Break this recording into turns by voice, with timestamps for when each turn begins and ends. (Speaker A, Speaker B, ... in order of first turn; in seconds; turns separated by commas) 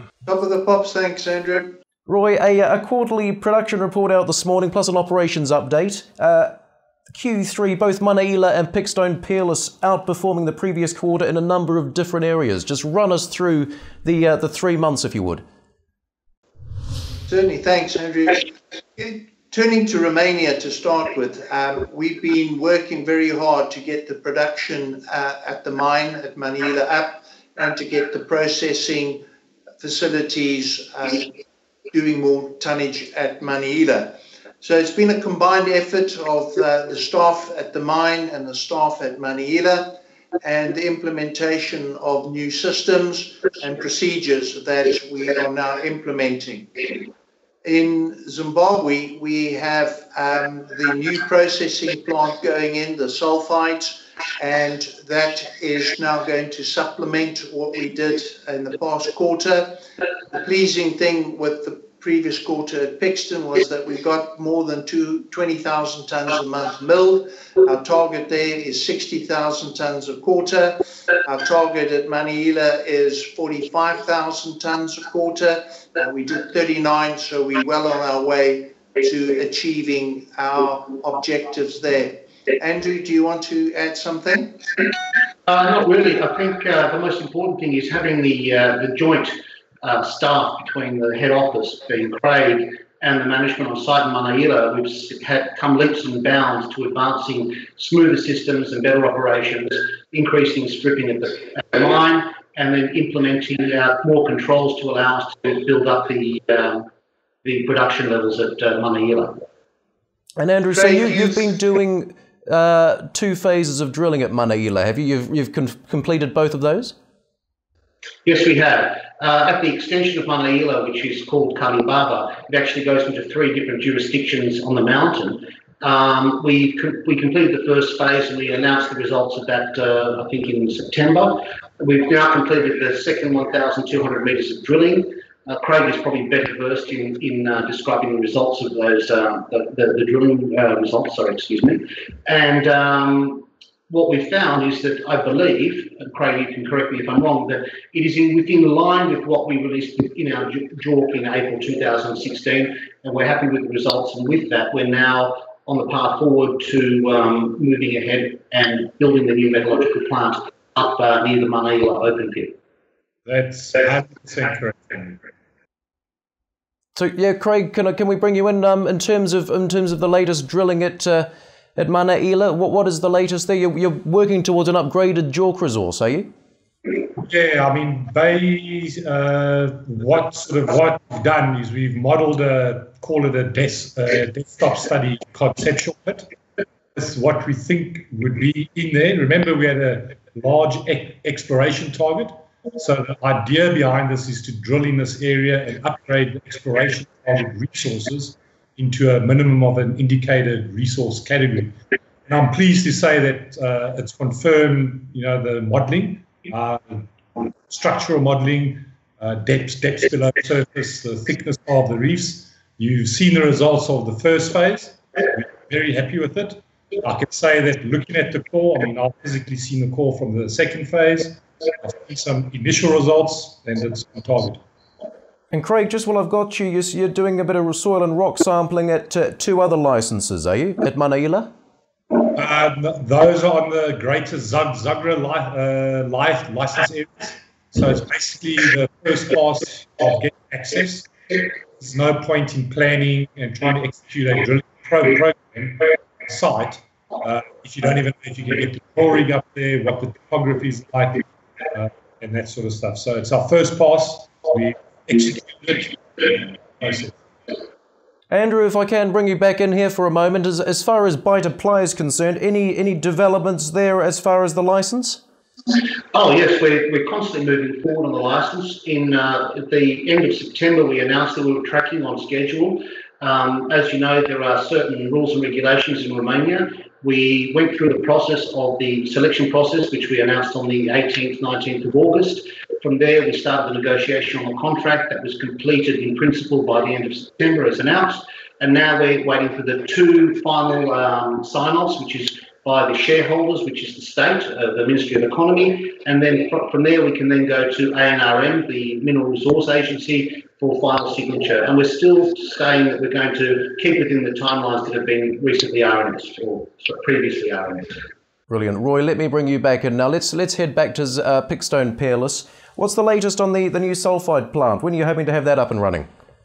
Speaker A: 0.2-1.8, Speaker B: 2.1-6.5, Speaker B: 7.1-15.4, Speaker A: 17.3-29.2, Speaker A: 29.8-31.3, Speaker A: 31.9-39.9, Speaker A: 40.4-47.0, Speaker A: 47.6-59.8, Speaker A: 60.3-84.5, Speaker C: 85.5-106.9, Speaker C: 107.4-109.5, Speaker B: 110.4-117.0, Speaker A: 110.7-111.5, Speaker C: 118.2-162.5, Speaker D: 163.3-165.2, Speaker B: 166.9-176.3, Speaker D: 177.2-186.3, Speaker D: 186.9-207.1, Speaker D: 207.7-224.6, Speaker B: 225.5-231.5, Speaker D: 232.3-257.2, Speaker B: 258.3-265.2, Speaker C: 266.1-307.9, Speaker B: 308.5-316.1